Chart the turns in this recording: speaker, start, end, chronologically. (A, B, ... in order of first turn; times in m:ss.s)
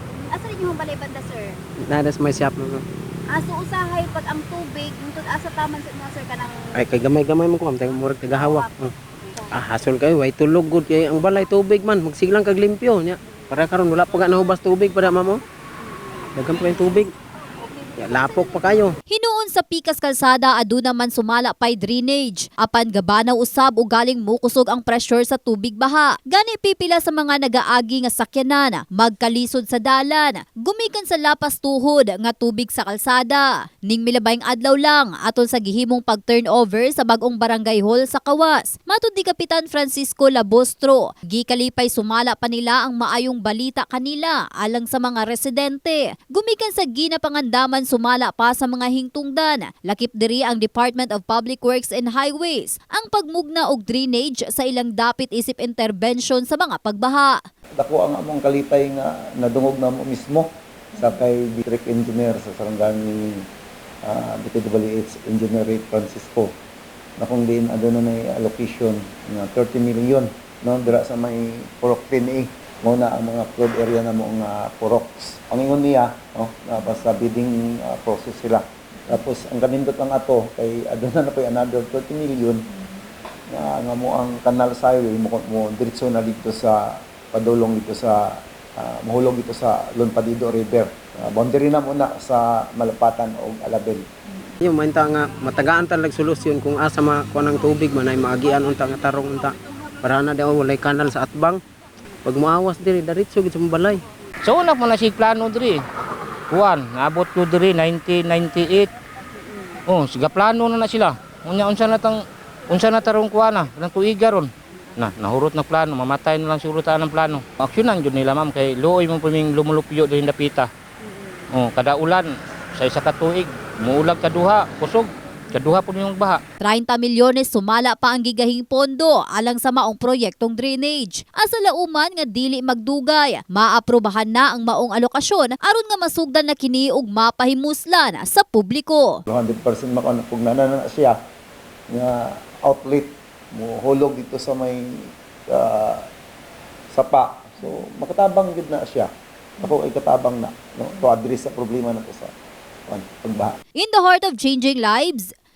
0:00.3-0:01.5 A
0:01.9-0:02.8 B
0:03.3-0:06.7 A
0:06.8-0:08.9 B
0:09.5-0:15.4 B
0:15.9-0:17.0 A
0:16.4-0:17.1 B
0:17.6-0:18.7 A
0:18.0-0:19.0 B
0:19.1-0:57.4 C
0:57.8-1:03.4 D
1:04.0-1:06.5 D
1:07.2-1:22.7 D
1:23.5-1:34.0 D
1:34.6-1:41.6 B
1:42.2-1:44.0 B
1:44.4-1:45.8 E
1:46.5-1:48.9 E
1:49.9-2:00.7 E
2:01.5-2:06.4 E
2:06.6-2:19.2 C
2:19.3-2:21.1 D
2:21.9-2:24.8 D
2:25.5-2:26.0 D
2:26.9-2:32.3 D
2:32.9-2:33.5 D
2:33.8-2:35.3 C